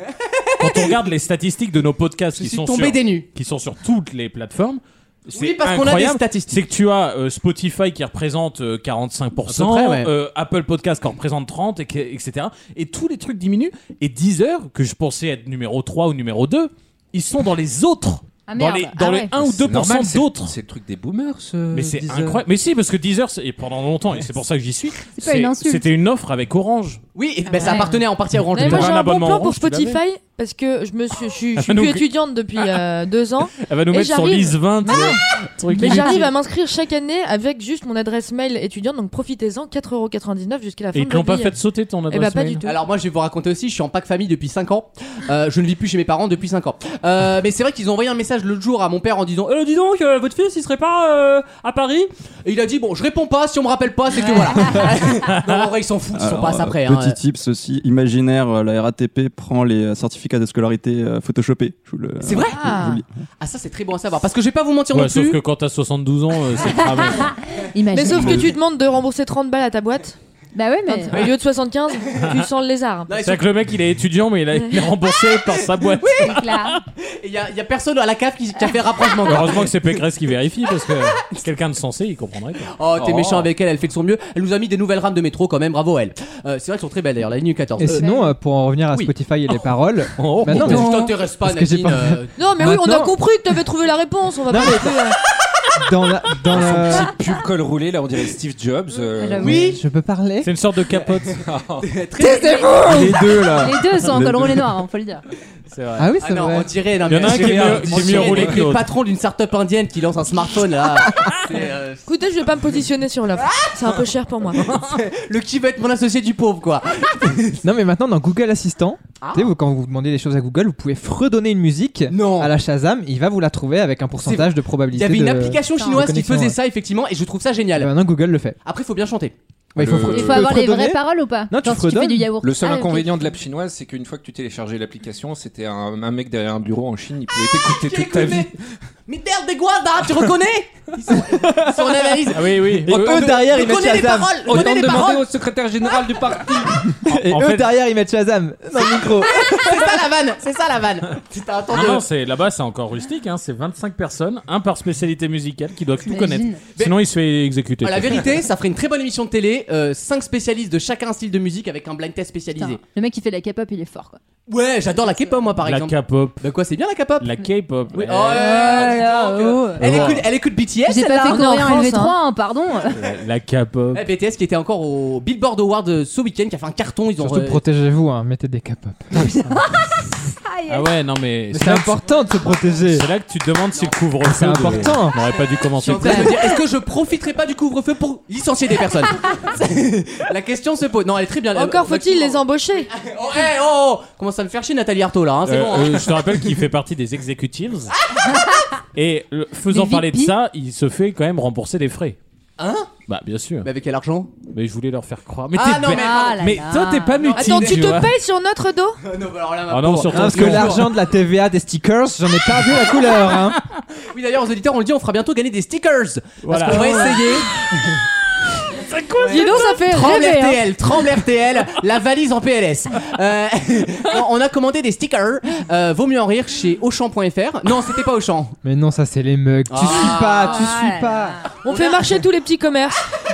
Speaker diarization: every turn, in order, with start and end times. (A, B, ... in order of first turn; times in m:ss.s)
0:00.2-0:00.9 A
0:00.6-0:20.6 B
0:02.4-0:03.3 A
0:05.3-0:06.6 A
0:09.5-0:10.1 A
0:18.5-0:19.4 C
0:19.4-0:22.3 D
0:21.7-0:27.0 B
0:21.9-0:22.4 E
0:25.2-0:25.8 C
0:27.2-0:29.0 A
0:27.5-0:28.0 C
0:27.6-0:27.8 F
0:28.5-0:35.2 F
0:28.5-0:30.0 B
0:31.6-0:32.8 B
0:33.6-0:36.3 B
0:35.7-0:36.3 C
0:35.8-0:41.6 F
0:40.9-0:42.6 B
0:42.1-0:42.8 F
0:42.6-0:49.6 A
0:49.5-0:52.1 B
0:52.4-0:57.2 A
0:54.2-0:54.8 F
0:54.9-0:55.6 B
0:56.2-1:03.1 G
1:02.2-1:02.9 A
1:02.5-1:03.0 F
1:03.4-1:05.4 A
1:04.9-1:07.3 B
1:07.0-1:08.6 C
1:07.9-1:10.2 F
1:10.6-1:11.2 C
1:10.9-1:13.1 F
1:12.1-1:12.5 B
1:13.1-1:13.5 A
1:13.1-1:16.8 B
1:15.8-1:16.4 A
1:16.2-1:16.8 C
1:17.0-1:19.7 A
1:19.2-1:22.8 B
1:22.8-1:28.1 A
1:23.0-1:23.5 D
1:27.8-1:33.2 E
1:27.8-1:28.3 C
1:30.2-1:30.9 B
1:30.5-1:32.3 A
1:32.4-1:35.2 F
1:34.5-1:35.1 E
1:35.8-1:37.1 E
1:36.5-1:39.6 D
1:39.2-1:39.6 C
1:39.4-1:40.5 E
1:39.4-1:39.8 A
1:40.4-1:41.4 B
1:41.4-1:41.9 D
1:41.8-1:42.8 A
1:42.3-1:43.7 E
1:42.8-1:43.6 D
1:43.6-1:45.2 C
1:45.7-1:46.1 B
1:46.0-1:46.7 E
1:46.2-1:52.0 A
1:47.1-1:48.9 B
1:47.9-1:48.5 D
1:52.1-1:54.6 F
1:54.7-1:57.6 A
1:57.6-2:06.6 E
1:59.2-1:59.5 A
2:02.1-2:02.5 A
2:04.2-2:07.9 A
2:05.8-2:06.1 C
2:07.8-2:08.6 E
2:08.6-2:09.4 A
2:09.8-2:12.3 E
2:09.8-2:10.6 D
2:10.0-2:13.4 C
2:12.4-2:18.5 D
2:17.6-2:18.6 A
2:19.1-2:25.3 A
2:21.3-2:22.1 E
2:22.3-2:23.2 B
2:22.9-2:24.6 E
2:22.9-2:23.2 D
2:24.5-2:26.9 D
2:27.0-2:30.0 E
2:27.1-2:27.7 B
2:29.3-2:32.0 A
2:31.7-2:38.3 B
2:36.1-2:36.6 C
2:37.8-2:42.8 A
2:42.6-2:44.2 C
2:44.5-2:47.3 A
2:45.0-2:45.4 C
2:45.6-2:46.4 B
2:47.2-2:48.4 B
2:47.9-2:51.5 A
2:48.2-2:50.1 C
2:49.8-2:50.3 B
2:50.8-2:53.1 C
2:51.3-2:52.2 F
2:52.9-2:54.0 B
2:53.9-2:57.6 A
2:57.2-2:59.6 E
2:59.2-3:00.9 C
3:00.7-3:02.0 B
3:01.5-3:03.1 E
3:02.9-3:06.4 B
3:04.2-3:05.2 E
3:05.8-3:16.5 A
3:06.0-3:06.3 E
3:11.6-3:12.9 F
3:15.4-3:17.9 B
3:17.9-3:18.6 A
3:19.0-3:22.2 B
3:19.7-3:20.4 C
3:22.6-3:22.9 A
3:23.1-3:23.7 B
3:23.6-3:24.3 A
3:24.5-3:28.1 B
3:25.5-3:26.5 A
3:25.9-3:27.3 C
3:27.2-3:28.0 A
3:27.4-3:29.0 F
3:29.0-3:30.9 A
3:29.7-3:30.8 B
3:30.1-3:33.6 E
3:34.1-3:37.5 A
3:36.4-3:37.3 B
3:38.7-3:39.7 B
3:39.2-3:48.6 A
3:39.3-3:40.6 F
3:39.4-3:40.5 C
3:48.6-3:51.4 E
3:49.7-3:50.8 A
3:50.3-3:51.4 C
3:51.6-3:52.2 A
3:51.6-3:53.0 F